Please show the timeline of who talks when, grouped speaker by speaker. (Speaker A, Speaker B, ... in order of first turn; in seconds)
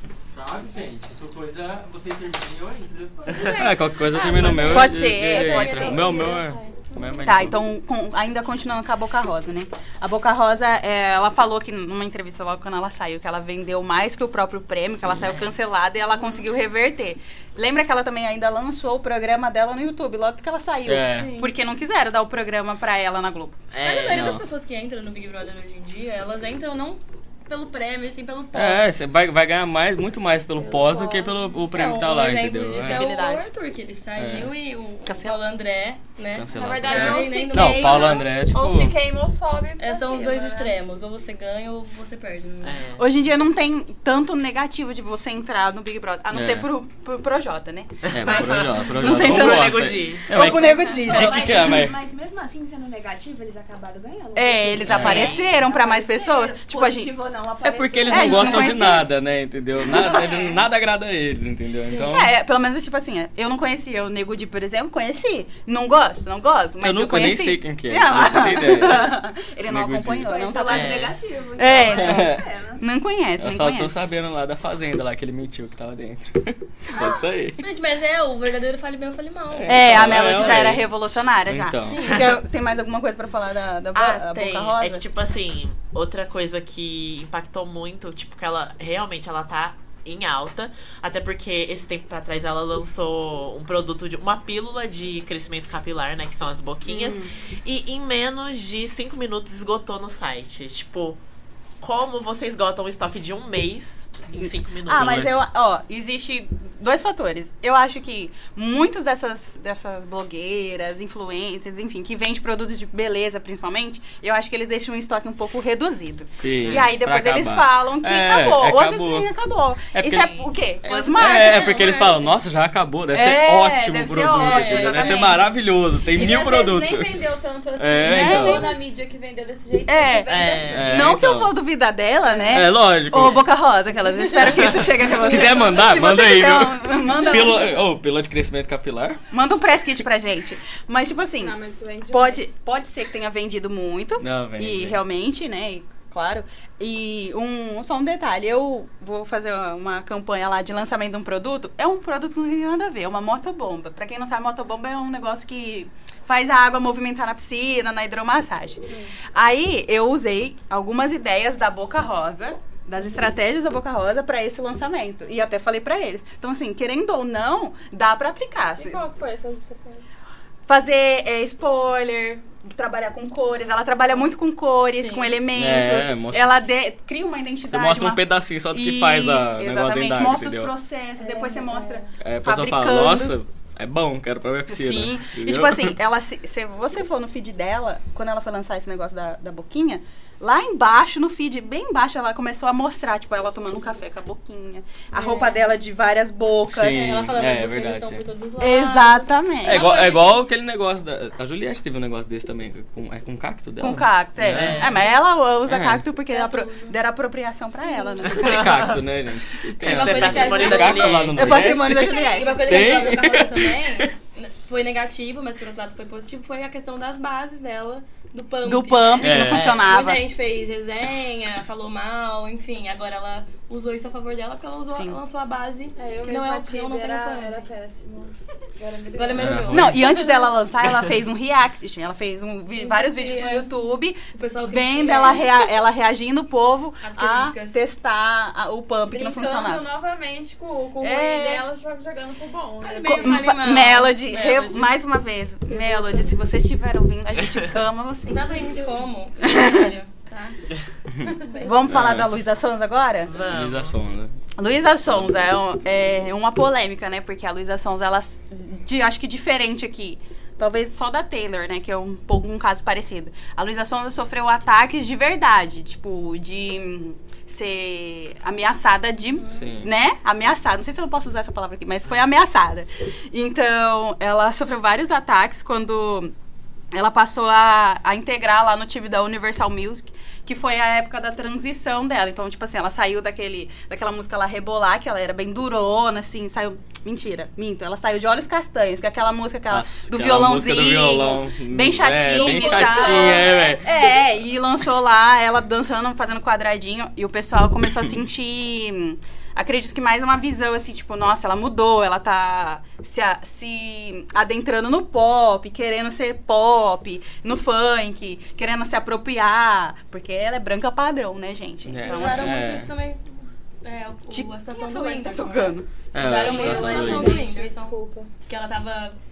Speaker A: 0.3-3.6
Speaker B: 3.4-7.2, 21.1-21.5, 30.5-31.6, 36.5-40.7, 126.1-130.9, 141.4-142.5, 168.8-170.1, 181.2-182.2, 225.9-229.6, 235.1-235.4, 239.1-243.6, 245.7-246.3, 248.6-248.9, 251.2-251.7, 292.3-293.8, 316.3-318.3
Speaker C: 3.5-7.6, 20.9-21.3, 24.1-24.4, 28.5-33.0, 34.2-34.5, 36.3-39.0, 46.3-46.7, 48.1-52.0, 54.9-55.4, 57.6-62.3, 66.8-69.2, 69.7-70.3, 71.9-72.5, 73.4-77.6, 79.5-82.4, 104.9-105.3, 116.3-119.3, 119.9-127.2, 127.8-128.8, 130.7-131.5, 132.5-133.5, 134.4-139.2, 144.2-145.0, 175.5-176.5, 177.7-180.7, 182.2-185.9, 196.6-198.2, 199.6-204.9, 205.7-206.0, 208.3-214.1, 219.2-219.8, 229.3-230.0, 251.9-252.3, 253.5-254.3, 269.5-269.9, 289.7-293.8, 311.9-312.9, 316.1-317.4
Speaker D: 4.5-6.4, 7.2-23.6, 32.8-33.5, 43.0-51.6, 54.3-57.1, 58.1-59.1, 62.1-73.9, 79.7-85.0, 96.8-97.3, 104.9-122.1, 123.1-125.5, 128.0-128.7, 129.8-137.7, 139.3-141.6, 142.1-169.0, 170.7-183.3, 184.7-197.2, 198.6-199.9, 203.8-208.6, 211.3-213.0, 218.6-220.2, 224.9-225.2, 229.7-239.8, 241.0-241.6, 243.2-248.8, 249.4-249.9, 251.6-253.3, 254.6-276.3, 276.9-312.6, 314.3-315.9
Speaker E: 15.0-15.5, 23.7-24.4, 35.0-35.4, 42.6-43.0, 48.1-50.5, 54.9-55.4, 70.7-71.2, 83.9-101.2, 101.8-105.3, 130.3-131.1, 204.4-205.1, 208.3-209.0, 209.8-211.8, 253.2-254.0
Speaker F: 23.8-28.9, 31.7-38.3, 39.8-42.8, 61.8-62.1, 77.0-80.6, 81.9-82.2, 121.1-122.3, 124.4-125.5, 174.9-175.4, 195.1-195.7, 196.9-200.4, 206.3-206.9, 207.7-208.6, 209.8-227.7, 229.1-230.5, 232.7-233.7, 234.3-235.7, 237.0-237.8, 242.8-244.9, 248.3-250.6, 251.4-251.7, 312.1-317.9, 318.4-319.2
Speaker G: 50.4-59.0, 60.0-60.3, 70.2-72.9, 77.0-77.3